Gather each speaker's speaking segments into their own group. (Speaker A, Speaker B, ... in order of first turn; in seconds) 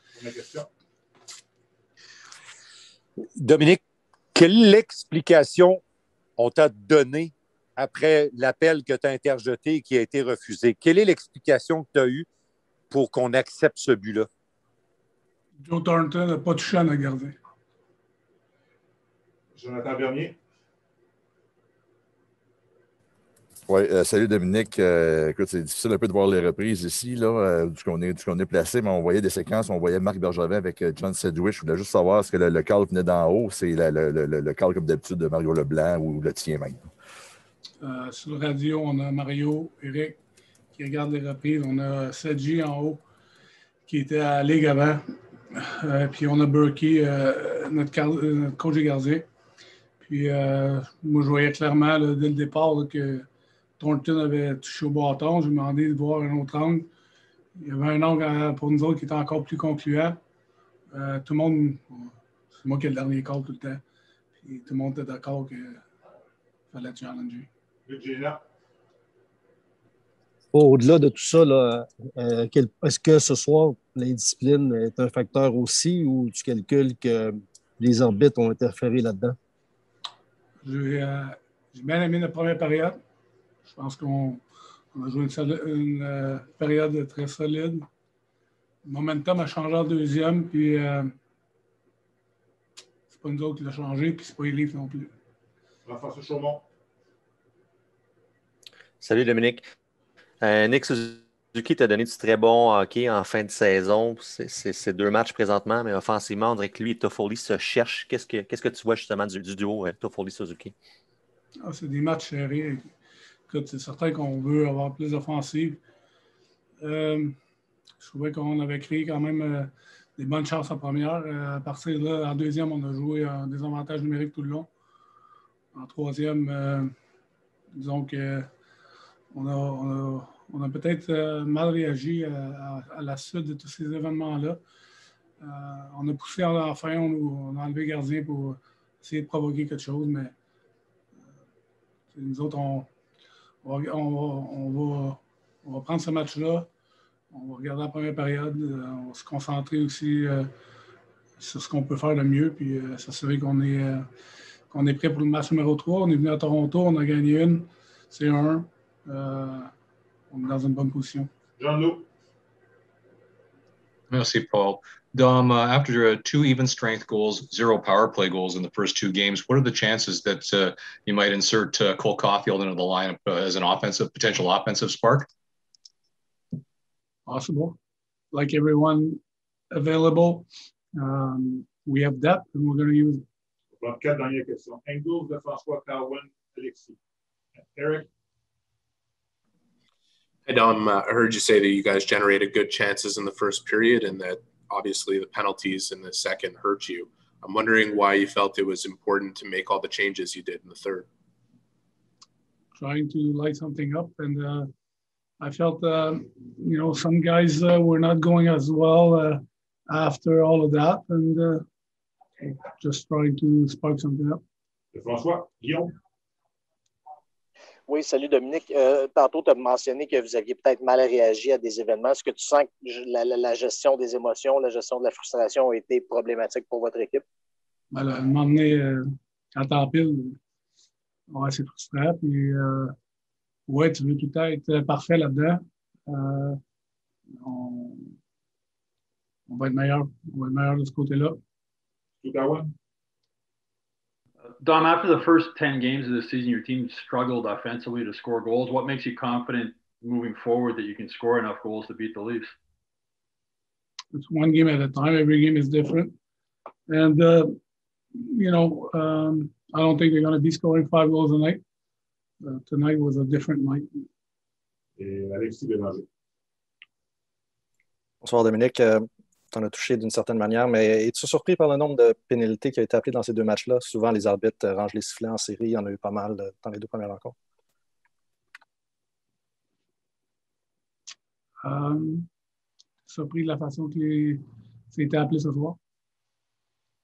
Speaker A: 0.1-0.7, 19.5-20.4, 67.9-68.4, 95.8-96.6, 161.6-162.1, 183.8-187.0, 187.6-188.1, 214.9-215.9, 242.2-242.7, 265.0-266.1
Speaker B: 3.4-3.8, 4.3-5.8, 6.4-12.3, 12.9-14.3
Speaker C: 15.6-17.4, 37.8-40.2, 40.7-43.0, 43.9-49.2, 50.0-53.3, 53.8-56.9, 57.5-60.2, 60.9-63.8, 64.4-65.8, 66.7-67.5, 80.6-83.0, 83.7-87.8, 88.8-91.1, 93.1-95.1, 111.6-112.9, 113.5-115.8, 116.8-117.4, 118.0-124.7, 125.7-126.9, 127.7-128.5, 129.3-134.6, 135.4-140.3, 142.1-142.9, 143.6-146.7, 147.3-150.5, 151.4-154.1, 154.7-159.7, 160.3-161.3, 177.3-177.8, 178.3-179.2, 179.7-183.2, 202.8-204.7, 205.4-211.6, 212.4-214.4, 227.9-230.4, 231.3-232.9, 233.7-236.6, 237.4-238.2, 239.5-241.4, 254.1-256.1, 256.9-257.6, 258.1-261.6, 262.4-264.0, 281.6-282.3, 283.1-285.8
Speaker D: 23.7-36.8
Speaker E: 70.5-79.4
Speaker F: 99.0-99.6, 100.4-110.7
Speaker G: 164.1-175.3
Speaker H: 190.4-201.1
Speaker I: 217.9-227.2
Speaker J: 244.6-252.5
Speaker K: 268.2-277.3